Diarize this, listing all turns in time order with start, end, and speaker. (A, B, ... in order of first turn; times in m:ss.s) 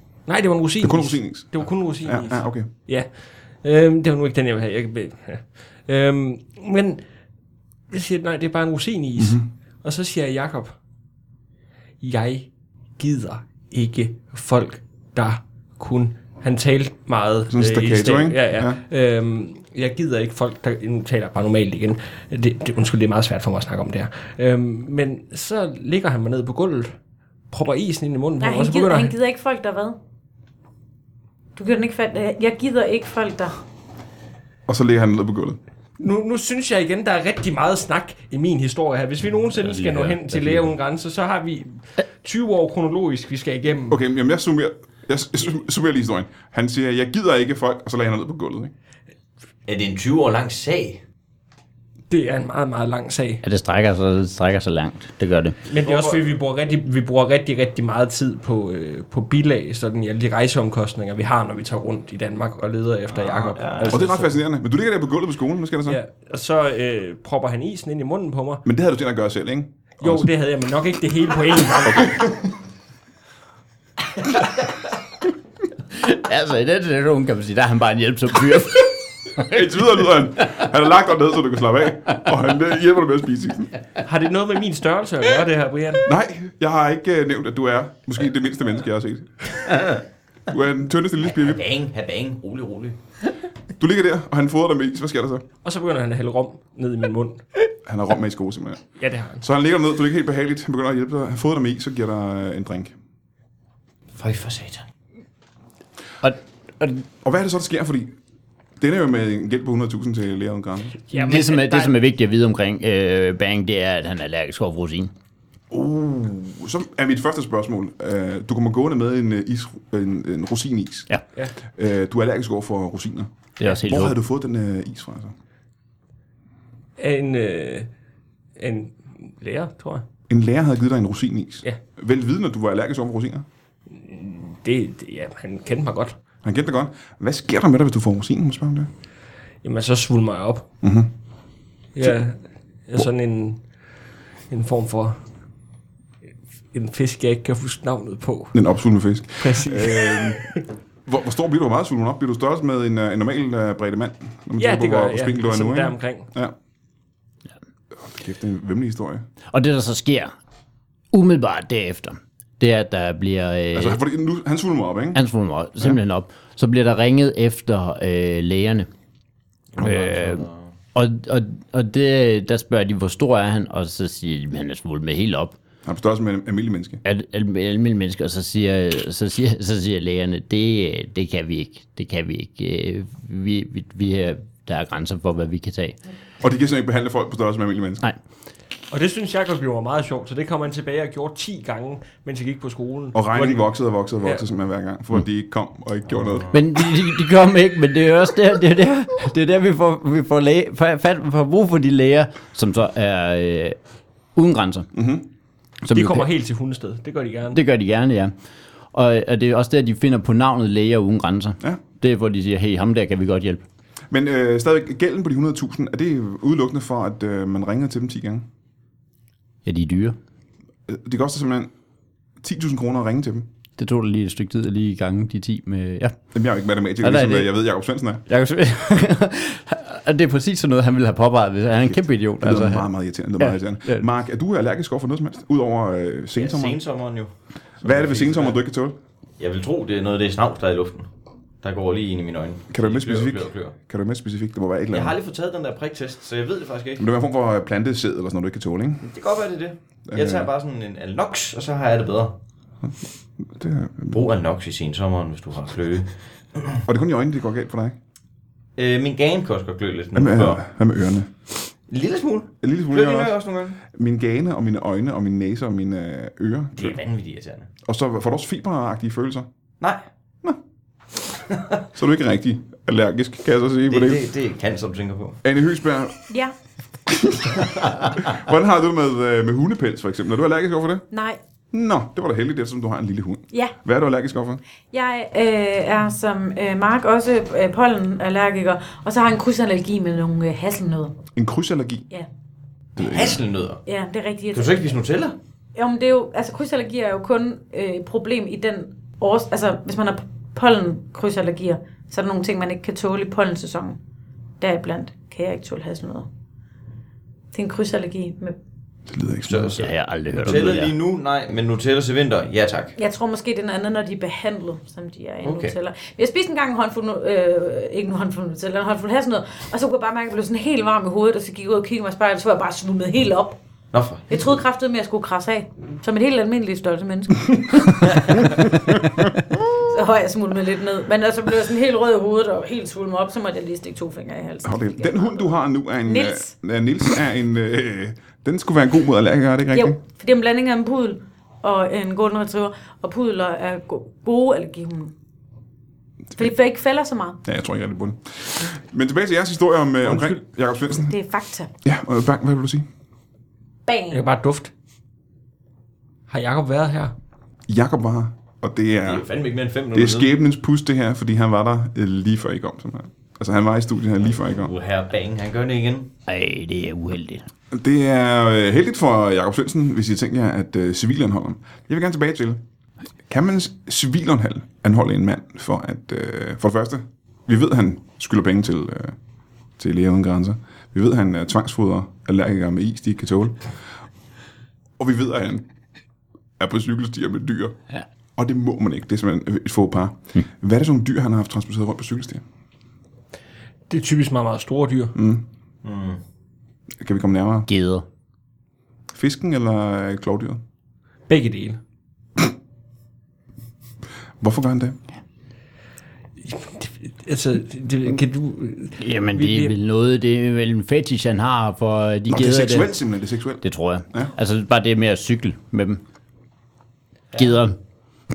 0:00.3-0:07.0 A
0:00.8-0:02.7 B
0:07.9-0:10.8 A
0:09.2-0:09.5 B
0:12.0-0:27.0 A
0:17.5-0:18.8 B
0:27.5-0:29.2 A
0:28.4-0:30.0 C
0:31.6-0:33.6 C
0:34.7-0:35.6 B
0:36.0-0:44.0 A
0:39.6-0:40.7 D
0:43.9-0:48.7 B
0:49.7-0:51.0 E
0:52.1-0:53.4 A
0:53.4-0:55.6 D
0:55.7-1:04.4 A
0:55.8-0:56.2 E
1:03.1-1:04.1 E
1:03.9-1:06.0 B
1:05.9-1:08.6 A
1:08.6-1:10.3 B
1:10.0-1:12.3 A
1:11.8-1:12.2 B
1:15.9-1:20.0 D
1:19.4-1:23.7 B
1:24.0-1:26.1 A
1:26.0-1:29.9 B
1:30.5-1:31.6 B
1:31.2-1:33.0 E
1:33.8-1:35.4 B
1:35.6-1:37.4 A
1:37.9-1:38.9 B
1:39.0-1:39.4 A
1:39.4-1:42.9 B
1:44.2-1:44.9 E
1:46.2-1:47.0 D
1:47.2-1:48.1 B
1:48.8-1:51.0 B
1:51.1-1:51.9 A
1:51.1-1:55.1 D
1:55.7-2:01.1 B
2:01.7-2:05.4 B
2:03.6-2:04.2 D
2:07.0-2:07.9 A
2:08.6-2:10.0 A
2:10.3-2:13.5 B
2:13.9-2:16.2 A
2:16.4-2:18.9 B
2:19.6-2:20.7 A
2:20.8-2:21.1 B
2:22.0-2:23.6 A
2:24.5-2:25.2 A
2:26.7-2:28.6 A
2:28.5-2:30.5 B
2:29.4-2:30.6 A
2:31.1-2:36.5 B
2:34.6-2:36.3 A
2:38.0-2:39.3 B
2:39.5-2:40.3 D
2:41.1-2:44.0 D
2:43.7-2:45.2 B
2:45.1-2:48.9 D
2:49.7-2:50.7 E
2:49.8-2:55.6 D
2:55.8-2:57.0 B
2:57.0-3:06.0 D
3:06.4-3:08.0 B
3:08.9-3:13.7 A
3:13.1-3:16.5 B
3:16.2-3:16.6 E
3:16.5-3:23.8 D
3:24.4-3:24.9 D
3:24.9-3:25.3 B
3:25.9-3:26.3 D
3:25.9-3:27.6 A
3:27.5-3:28.3 D
3:28.9-3:33.6 D
3:34.1-3:38.5 B
3:39.6-3:40.2 D
3:40.9-3:41.7 B
3:42.4-3:43.5 B
3:43.8-3:46.2 D
3:46.3-3:48.2 B
3:47.0-3:47.5 D
3:48.3-3:52.9 D
3:51.9-3:56.8 B
3:53.4-3:54.1 D
3:56.4-3:57.3 E
3:57.8-3:58.6 E
3:57.8-3:59.0 B
3:59.4-4:01.1 E
4:01.6-4:03.8 E
4:02.7-4:05.2 B
4:04.9-4:07.0 E
4:07.0-4:09.1 B
4:09.0-4:12.4 E
4:10.1-4:10.5 B
4:13.5-4:14.2 B
4:14.1-4:16.8 E
4:16.8-4:18.0 B
4:18.8-4:20.6 E
4:20.2-4:21.3 B
4:21.9-4:23.8 E
4:22.6-4:27.0 B
4:26.8-4:27.7 E
4:27.8-4:29.5 B
4:29.8-4:30.0 E
4:31.9-4:34.3 B
4:33.9-4:35.4 E
4:35.4-4:36.2 B
4:37.1-4:41.0 B
4:41.1-4:41.4 C
4:41.7-4:44.6 B
4:44.9-4:51.2 C
4:51.4-4:52.1 B
4:53.0-4:53.4 B
4:53.0-4:53.8 E
4:53.9-4:54.9 C
4:54.5-4:55.4 E
4:55.8-5:04.0 C
5:04.6-5:06.3 C
5:07.5-5:08.6 C
5:09.1-5:09.8 B
5:09.5-5:13.0 E
5:09.7-5:11.0 D
5:13.0-5:23.6 C
5:15.4-5:15.8 E
5:23.9-5:24.6 E
5:24.3-5:28.5 C
5:29.8-5:36.5 C
5:34.6-5:40.0 B
5:39.7-5:45.1 C
5:46.4-5:47.4 C
5:47.4-5:51.2 B
5:50.9-5:51.7 C
5:51.8-5:52.9 B
5:53.9-5:54.3 C
5:54.1-5:54.7 A
5:56.3-5:57.1 A
5:57.7-5:59.3 B
5:59.0-6:00.3 E
5:59.9-6:04.7 B
6:04.2-6:06.1 E
6:06.3-6:07.5 D
6:07.7-6:12.6 B
6:13.3-6:19.2 B
6:19.8-6:23.6 B
6:25.0-6:25.7 B
6:26.6-6:27.8 B
6:28.4-6:32.4 B
6:33.9-6:35.2 A
6:35.2-6:35.4 B
6:35.8-6:36.2 E
6:37.0-6:37.7 B
6:37.7-6:38.1 D
6:39.1-6:40.6 B
6:41.3-6:41.8 A
6:44.4-6:45.0 B
6:46.4-6:49.7 A
6:49.0-6:53.0 D
6:52.3-6:54.3 B
6:53.6-6:56.0 D
6:57.3-6:57.8 D